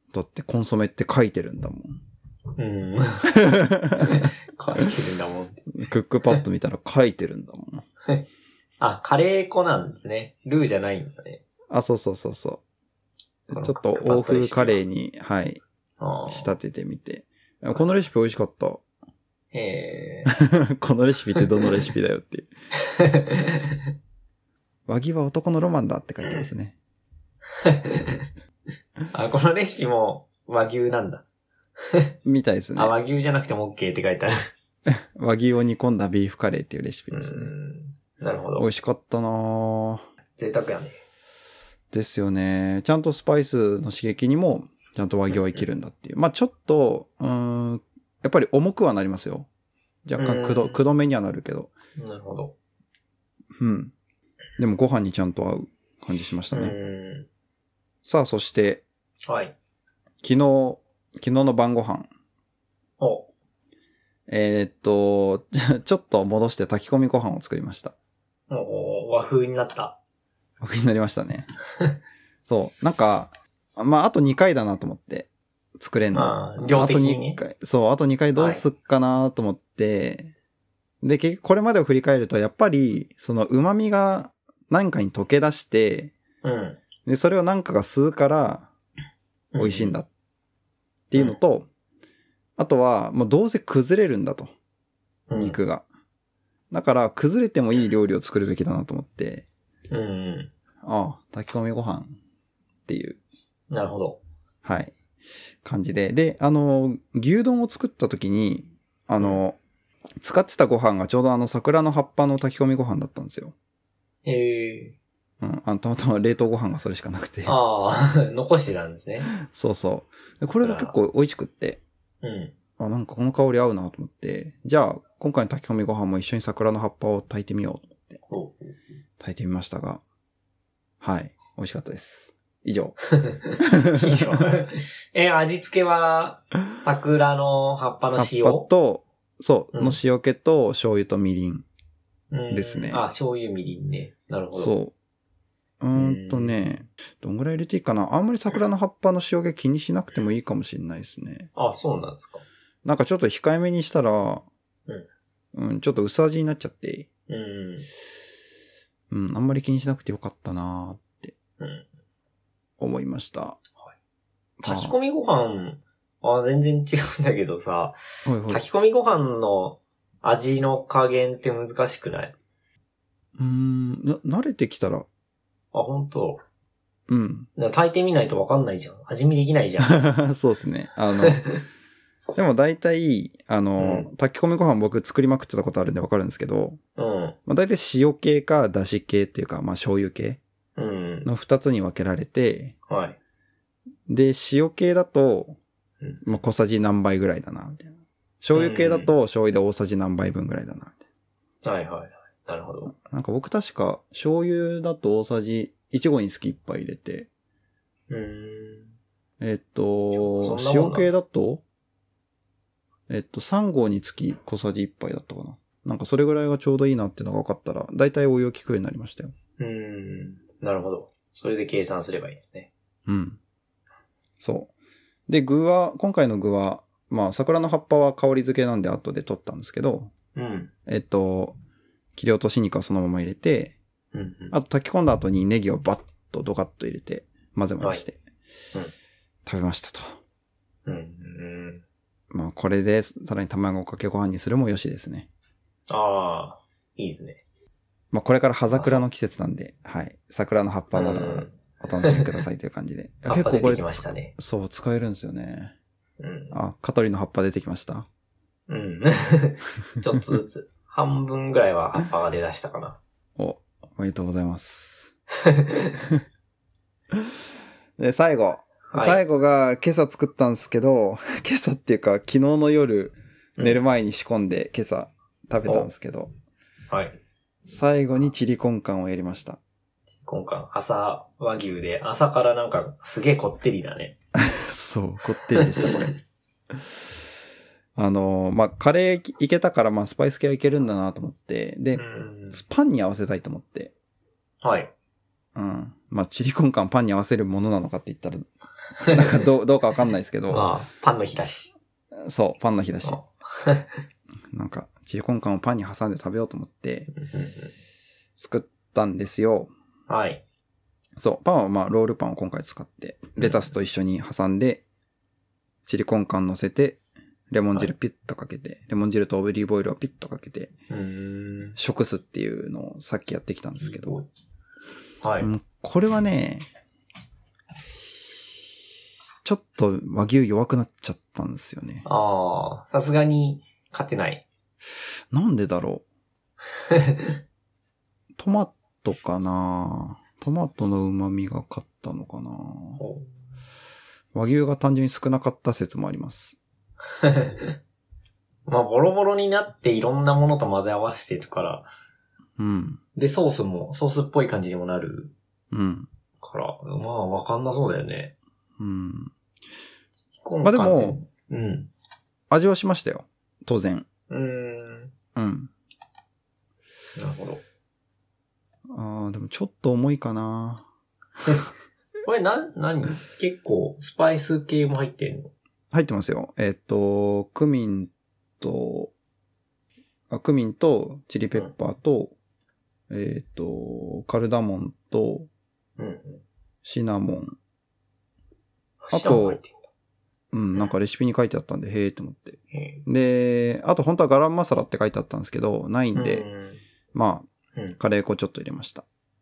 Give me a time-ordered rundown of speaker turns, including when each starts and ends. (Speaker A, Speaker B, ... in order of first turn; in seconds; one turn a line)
Speaker A: 0.1-2.0
Speaker B: 2.6-3.4
Speaker A: 3.3-4.3
Speaker B: 4.0-5.6
Speaker A: 5.7-7.9
Speaker B: 8.8-11.4
Speaker A: 11.7-12.6
Speaker A: 13.5-15.6
Speaker B: 13.5-14.8
Speaker B: 16.0-16.5
Speaker A: 16.3-18.8
Speaker B: 19.5-20.3
Speaker A: 20.3-22.5
Speaker B: 22.8-23.9
Speaker A: 24.9-26.8
Speaker B: 27.6-28.3
Speaker B: 29.1-31.2
Speaker B: 31.8-32.1
Speaker A: 32.2-32.9
Speaker B: 32.8-34.5
Speaker A: 34.9-37.5
Speaker B: 37.1-38.7
Speaker A: 38.6-40.0
Speaker B: 40.4-41.0
Speaker A: 41.9-49.5
Speaker A: 50.1-51.7
Speaker B: 50.2-50.8
Speaker B: 52.0-52.5
Speaker A: 53.6-53.9
Speaker A: 54.6-56.8
Speaker B: 56.5-57.3
Speaker A: 58.0-58.9
Speaker B: 59.3-59.5
Speaker A: 60.2-62.1
Speaker B: 63.0-63.3
Speaker A: 64.3-68.0
Speaker B: 68.5-70.0
Speaker A: 70.6-71.5
Speaker A: 72.5-80.3
Speaker B: 76.1-77.4
Speaker B: 78.4-78.6
Speaker A: 81.0-86.1
Speaker B: 86.4-86.8
Speaker A: 87.0-88.7
Speaker B: 89.5-90.0
Speaker A: 89.6-90.1
Speaker A: 91.1-91.7
Speaker A: 92.6-94.5
Speaker B: 95.3-95.6
Speaker A: 95.3-95.8
Speaker A: 96.7-99.5
Speaker B: 99.9-100.5
Speaker A: 100.8-102.2
Speaker A: 102.9-103.2
Speaker B: 103.7-104.2
Speaker A: 104.6-105.0
Speaker A: 105.6-109.6
Speaker A: 110.2-113.5
Speaker B: 114.2-115.0
Speaker A: 115.4-117.6
Speaker B: 117.5-119.3
Speaker A: 119.3-121.8
Speaker B: 120.6-121.0
Speaker B: 122.2-122.5
Speaker A: 122.8-128.2
Speaker B: 128.3-128.8
Speaker A: 129.2-130.0
Speaker A: 131.0-133.0
Speaker B: 133.2-138.7
Speaker A: 133.6-134.5
Speaker A: 138.1-141.7
Speaker B: 142.3-144.7
Speaker A: 142.5-143.0
Speaker A: 144.6-144.9
Speaker A: 145.8-151.5
Speaker B: 145.9-146.6
Speaker B: 151.6-152.4
Speaker A: 152.8-154.5
Speaker A: 155.5-157.1
Speaker B: 157.3-157.9
Speaker A: 159.1-161.3
Speaker B: 161.6-161.9
Speaker A: 162.8-163.6
Speaker A: 164.6-164.9
Speaker B: 164.6-168.0
Speaker A: 168.3-168.6
Speaker B: 168.5-172.3
Speaker A: 173.4-175.1
Speaker B: 175.7-176.4
Speaker A: 177.1-177.5
Speaker B: 177.6-180.0
Speaker A: 179.8-181.4
Speaker A: 182.3-186.8
Speaker B: 183.8-184.1
Speaker B: 187.0-187.4
Speaker A: 187.5-190.4
Speaker B: 190.8-191.3
Speaker A: 191.2-192.8
Speaker B: 192.9-193.2
Speaker A: 194.1-195.6
Speaker A: 196.2-201.0
Speaker B: 198.6-199.1
Speaker B: 201.6-202.9
Speaker A: 202.9-207.3
Speaker B: 208.1-208.9
Speaker A: 209.4-211.6
Speaker B: 210.1-211.1
Speaker A: 213.1-219.3
Speaker B: 219.6-222.7
Speaker A: 223.1-223.4
Speaker A: 224.4-224.7
Speaker A: 225.3-230.1
Speaker B: 230.3-230.7
Speaker A: 230.9-231.6
Speaker A: 232.2-233.8
Speaker B: 234.1-234.5
Speaker A: 234.5-238.2
Speaker A: 239.5-240.2
Speaker B: 240.9-241.8
Speaker A: 242.3-245.3
Speaker B: 245.9-247.4
Speaker A: 248.1-255.8
Speaker B: 248.7-249.0
Speaker B: 250.9-252.3
Speaker B: 253.3-254.3
Speaker B: 256.2-256.6
Speaker A: 256.5-258.1
Speaker B: 258.7-263.0
Speaker A: 263.4-265.1
Speaker B: 265.4-265.9
Speaker A: 268.0-276.3
Speaker B: 268.9-269.2
Speaker B: 276.9-277.2
Speaker A: 277.7-279.6
Speaker B: 280.2-284.1
Speaker A: 284.4-286.2
Speaker B: 285.6-286.0
Speaker A: 288.0-293.9
Speaker B: 292.0-292.6
Speaker B: 294.6-294.9
Speaker A: 295.6-300.7
Speaker B: 299.1-299.4
Speaker B: 300.5-301.7
Speaker A: 302.2-303.2
Speaker B: 303.0-304.0
Speaker A: 304.5-307.1
Speaker B: 307.1-307.7
Speaker A: 308.4-309.7
Speaker B: 310.1-310.4
Speaker A: 311.2-314.8
Speaker A: 315.9-317.0
Speaker A: 317.5-320.7
Speaker B: 320.9-321.8
Speaker A: 321.8-324.2
Speaker B: 323.8-324.3
Speaker B: 325.2-325.5
Speaker A: 325.4-326.7
Speaker A: 329.4-332.1
Speaker B: 332.1-334.4
Speaker A: 335.3-336.1
Speaker B: 336.9-337.4
Speaker A: 338.4-343.0
Speaker B: 343.0-343.3
Speaker A: 344.3-346.6
Speaker B: 347.2-347.8
Speaker B: 348.7-351.9
Speaker A: 352.6-353.0
Speaker B: 353.2-355.3
Speaker A: 355.7-356.1
Speaker B: 356.4-358.3
Speaker A: 358.8-359.3
Speaker B: 360.4-361.9
Speaker A: 360.6-361.2
Speaker A: 362.5-364.1
Speaker B: 364.3-365.1
Speaker A: 365.4-365.7
Speaker B: 367.2-367.6
Speaker A: 368.9-370.9
Speaker B: 372.2-375.5
Speaker A: 375.9-379.1
Speaker A: 380.3-382.3
Speaker A: 383.1-385.5
Speaker B: 386.0-386.4
Speaker A: 386.8-387.6
Speaker B: 389.0-389.9
Speaker A: 389.1-389.6
Speaker A: 390.5-396.5
Speaker B: 392.7-393.0
Speaker B: 396.1-396.8
Speaker A: 397.1-399.1